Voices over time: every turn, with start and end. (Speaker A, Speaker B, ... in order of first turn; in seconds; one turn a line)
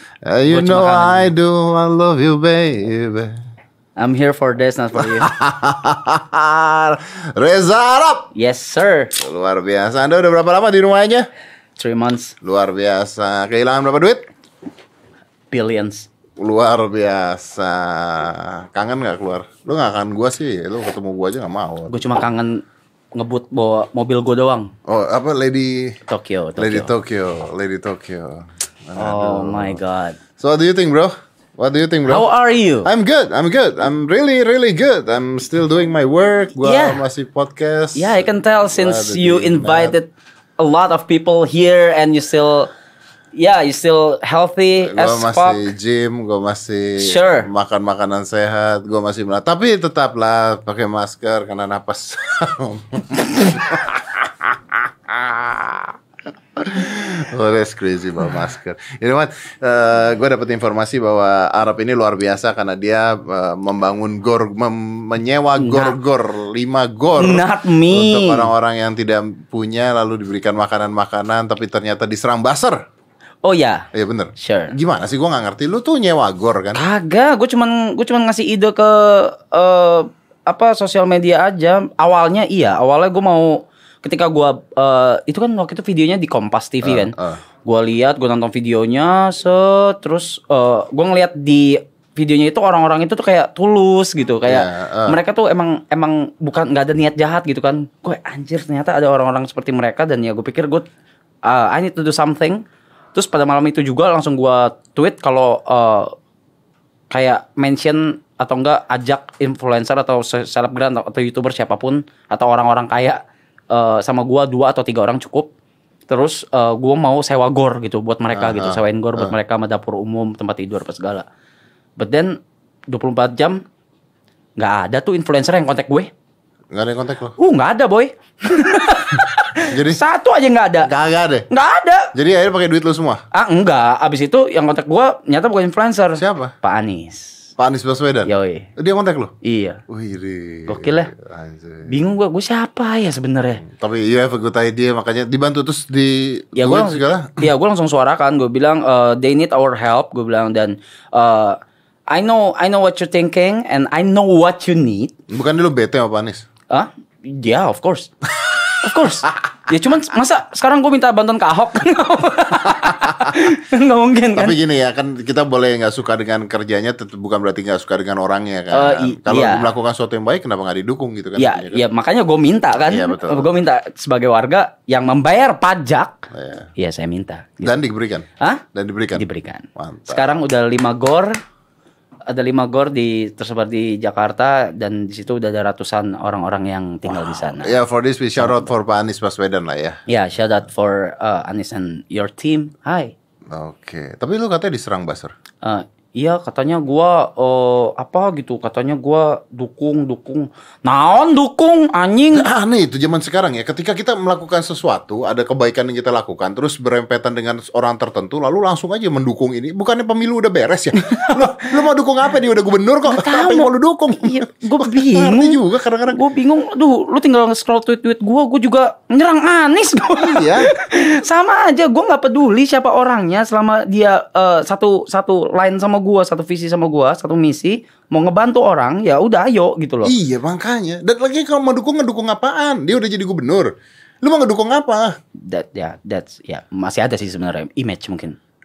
Speaker A: 0.2-3.4
Speaker B: 0.5-1.3
Speaker B: 4.0-5.3
Speaker A: 5.0-8.3
Speaker B: 8.3-9.1
Speaker A: 9.2-11.3
Speaker B: 11.8-12.3
Speaker A: 12.4-14.2
Speaker B: 15.5-16.1
Speaker A: 16.4-22.1
Speaker B: 21.9-22.6
Speaker B: 23.1-24.7
Speaker A: 24.9-26.0
Speaker B: 26.1-26.9
Speaker A: 26.6-29.8
Speaker B: 29.0-30.2
Speaker A: 30.4-32.3
Speaker B: 32.1-32.9
Speaker A: 32.9-40.0
Speaker B: 36.6-37.0
Speaker B: 38.0-42.7
Speaker B: 43.4-45.6
Speaker A: 44.8-56.0
Speaker B: 47.0-47.5
Speaker A: 56.6-72.8
Speaker B: 65.6-66.0
Speaker B: 67.2-68.5
Speaker B: 73.4-74.7
Speaker A: 73.9-76.8
Speaker B: 76.7-100.8
Speaker A: 86.8-87.4
Speaker A: 94.4-95.2
Speaker B: 101.5-106.2
Speaker B: 107.1-115.5
Speaker B: 116.1-121.3
Speaker A: 118.3-119.3
Speaker B: 122.0-123.6
Speaker B: 124.6-126.1
Speaker A: 126.7-127.3
Speaker B: 127.4-130.9
Speaker A: 129.6-130.0
Speaker A: 130.8-131.5
Speaker B: 131.5-132.1
Speaker A: 132.1-133.2
Speaker B: 133.3-137.5
Speaker A: 136.2-136.5
Speaker A: 137.6-139.3
Speaker B: 138.3-138.7
Speaker B: 139.4-139.8
Speaker A: 139.9-142.0
Speaker B: 140.7-141.1
Speaker B: 141.9-143.6
Speaker A: 143.6-147.5
Speaker B: 146.6-155.1
Speaker A: 155.3-156.5
Speaker B: 156.7-158.1
Speaker B: 158.8-164.6
Speaker A: 162.7-163.4
Speaker A: 164.3-171.8
Speaker B: 168.7-169.7
Speaker B: 171.4-177.7
Speaker A: 172.8-173.6
Speaker A: 176.3-176.7
Speaker A: 177.6-180.3
Speaker B: 178.4-178.6
Speaker B: 179.2-181.4
Speaker B: 182.3-187.8
Speaker A: 187.1-190.0
Speaker B: 188.4-188.7
Speaker B: 190.1-193.2
Speaker A: 193.5-195.3
Speaker B: 195.6-202.5
Speaker A: 202.3-216.2
Speaker B: 211.1-211.7
Speaker B: 213.1-230.1
Speaker A: 220.2-220.7
Speaker A: 230.0-235.2
Speaker B: 235.4-238.4